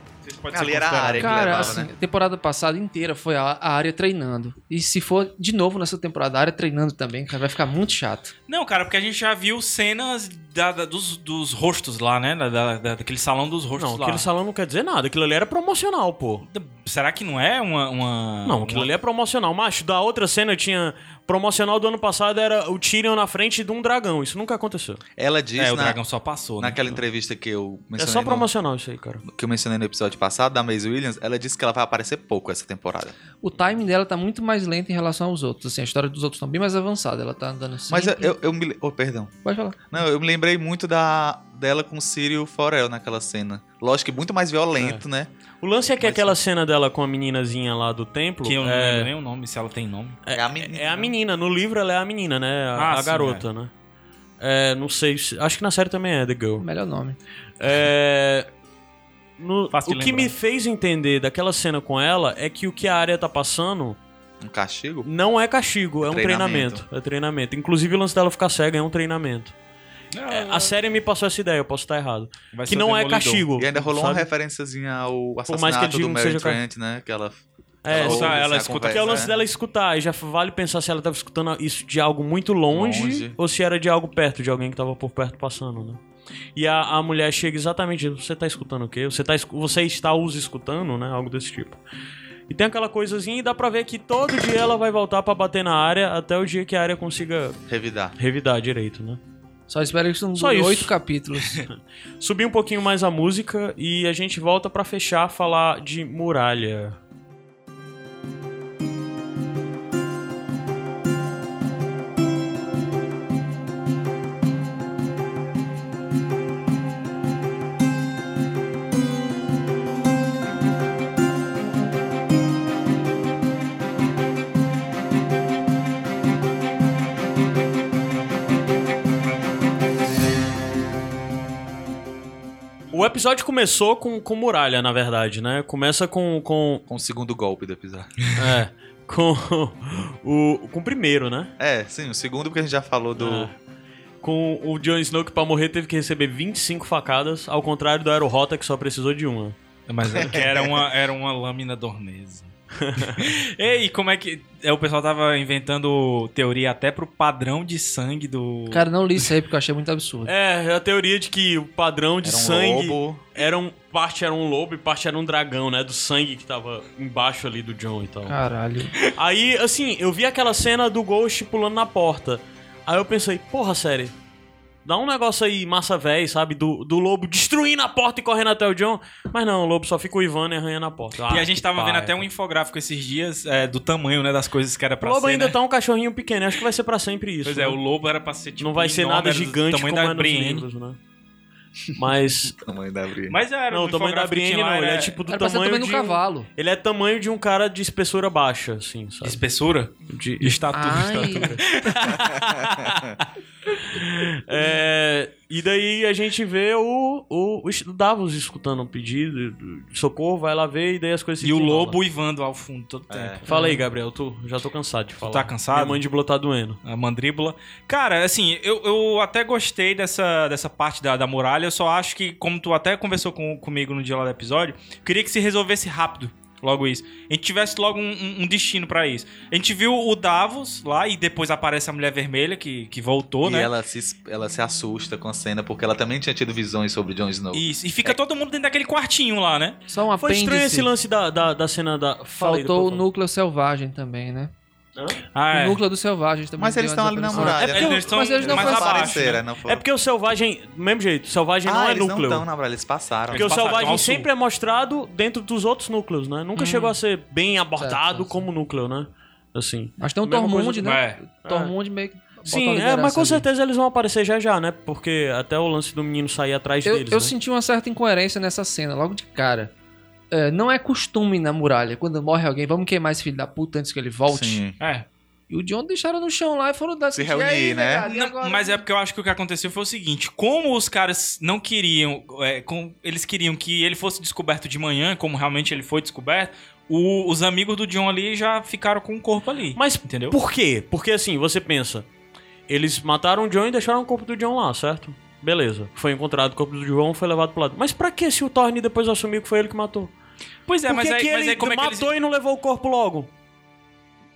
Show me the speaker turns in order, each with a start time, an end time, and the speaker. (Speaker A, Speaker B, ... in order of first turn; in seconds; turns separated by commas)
Speaker A: 0.2-1.8, Speaker B: 0.5-1.9, Speaker C: 1.2-8.3, Speaker A: 8.5-14.2, Speaker D: 13.8-16.4, Speaker A: 16.5-18.9, Speaker D: 18.4-25.0, Speaker B: 25.2-26.0, Speaker A: 25.6-27.0, Speaker B: 26.6-28.5, Speaker D: 28.0-29.2, Speaker B: 29.2-33.1, Speaker C: 33.4-38.3, Speaker B: 37.9-39.3, Speaker C: 39.4-39.9, Speaker B: 39.9-45.3, Speaker D: 44.8-45.0, Speaker D: 45.6-49.1, Speaker B: 46.0-46.4, Speaker A: 48.4-50.2, Speaker D: 50.2-53.7, Speaker B: 50.3-51.1, Speaker A: 52.8-53.4, Speaker D: 54.4-56.6, Speaker C: 56.6-57.2, Speaker D: 57.6-58.5, Speaker D: 59.4-64.0, Speaker A: 59.7-60.3, Speaker B: 64.4-65.1, Speaker D: 65.0-69.5, Speaker B: 66.0-66.8, Speaker A: 70.1-70.8, Speaker D: 70.3-74.3, Speaker A: 72.5-73.5, Speaker B: 73.5-79.4, Speaker D: 75.5-76.6, Speaker D: 77.8-86.0, Speaker A: 77.9-79.3, Speaker B: 82.7-83.4, Speaker D: 86.5-91.8, Speaker D: 92.5-97.6, Speaker B: 97.7-98.1, Speaker D: 98.2-99.2, Speaker C: 99.7-101.6, Speaker D: 100.3-100.9, Speaker D: 101.6-107.0, Speaker D: 132.9-136.8, Speaker B: 136.9-138.2, Speaker D: 138.3-141.5, Speaker B: 141.6-143.5, Speaker D: 143.2-143.6, Speaker D: 144.2-149.6, Speaker A: 149.9-158.8, Speaker B: 150.1-150.8, Speaker D: 152.8-153.3, Speaker C: 158.7-160.3, Speaker D: 160.2-168.3, Speaker B: 162.2-163.2, Speaker C: 168.3-168.9, Speaker D: 169.1-174.1, Speaker D: 174.8-182.3, Speaker A: 181.3-185.6, Speaker D: 185.0-187.8, Speaker A: 187.4-190.6, Speaker D: 188.6-191.0, Speaker D: 191.9-192.6, Speaker B: 192.6-193.4, Speaker A: 193.3-195.2, Speaker D: 193.7-199.4, Speaker C: 195.3-196.5, Speaker A: 199.2-203.2, Speaker D: 200.1-201.6, Speaker C: 200.7-201.6, Speaker B: 202.1-203.2, Speaker D: 203.8-211.9, Speaker A: 211.4-213.4, Speaker B: 213.1-213.4, Speaker D: 213.4-216.8, Speaker C: 213.5-213.8, Speaker A: 215.2-216.0, Speaker A: 216.8-233.7, Speaker B: 233.4-238.2, Speaker A: 237.5-239.8, Speaker C: 239.9-240.9, Speaker D: 240.1-243.0, Speaker C: 242.4-244.5, Speaker A: 245.3-245.8, Speaker C: 245.5-249.2, Speaker B: 246.6-249.8, Speaker D: 247.3-247.6, Speaker A: 247.4-249.4, Speaker D: 249.6-252.4, Speaker B: 251.6-254.0, Speaker A: 253.3-254.3, Speaker D: 253.3-260.9, Speaker C: 256.6-257.0, Speaker C: 257.8-258.5, Speaker C: 260.0-263.4, Speaker A: 260.8-261.2, Speaker D: 261.4-261.7, Speaker D: 262.4-267.3, Speaker C: 266.8-269.7, Speaker C: 270.3-274.6, Speaker B: 274.3-274.7, Speaker A: 274.8-275.1, Speaker C: 275.5-278.8, Speaker B: 277.1-278.1, Speaker A: 278.1-290.4, Speaker D: 289.7-292.1, Speaker D: 292.7-300.1, Speaker A: 300.7-302.1, Speaker D: 300.9-303.3